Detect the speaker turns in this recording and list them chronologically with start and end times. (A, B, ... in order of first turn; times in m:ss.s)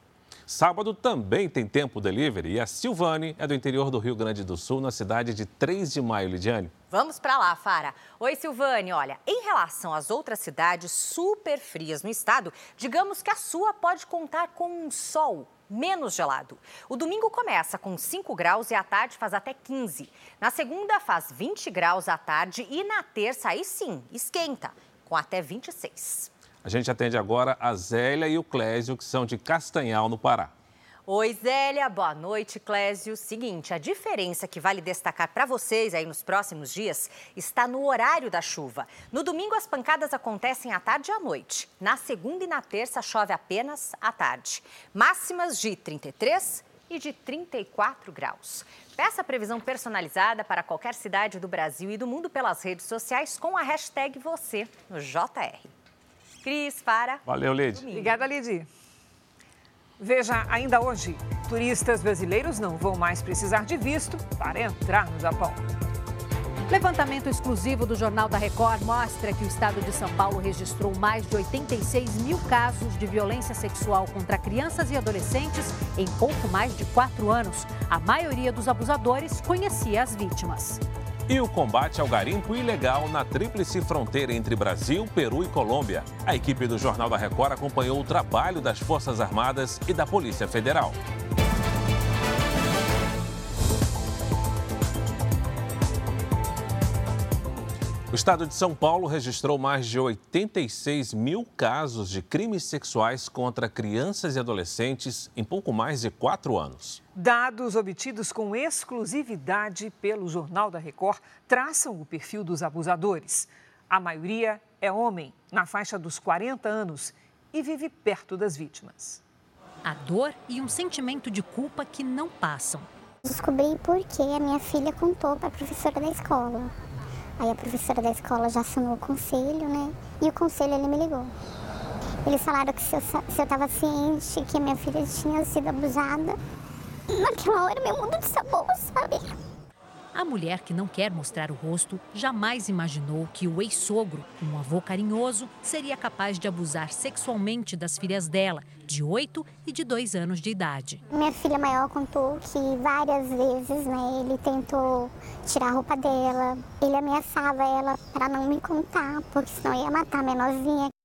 0:00.5-0:06.7 A
0:06.9-0:26.3 B
0:26.6-0:30.5 A
0:31.1-0:55.7 B
0:56.4-0:57.2 B
0:57.3-0:57.9 A
0:57.8-0:58.1 B
0:57.9-0:58.7 C
1:00.0-1:05.6 C
1:06.7-1:20.8 D
1:21.3-1:31.0 A
1:38.1-1:47.0 A
1:47.2-1:59.2 C
1:59.8-2:02.9 D
2:03.2-2:06.7 E
2:07.4-2:11.3 E
2:12.3-2:16.4 E
2:17.1-2:19.3 E
2:20.2-2:31.0 D
2:31.1-2:40.9 E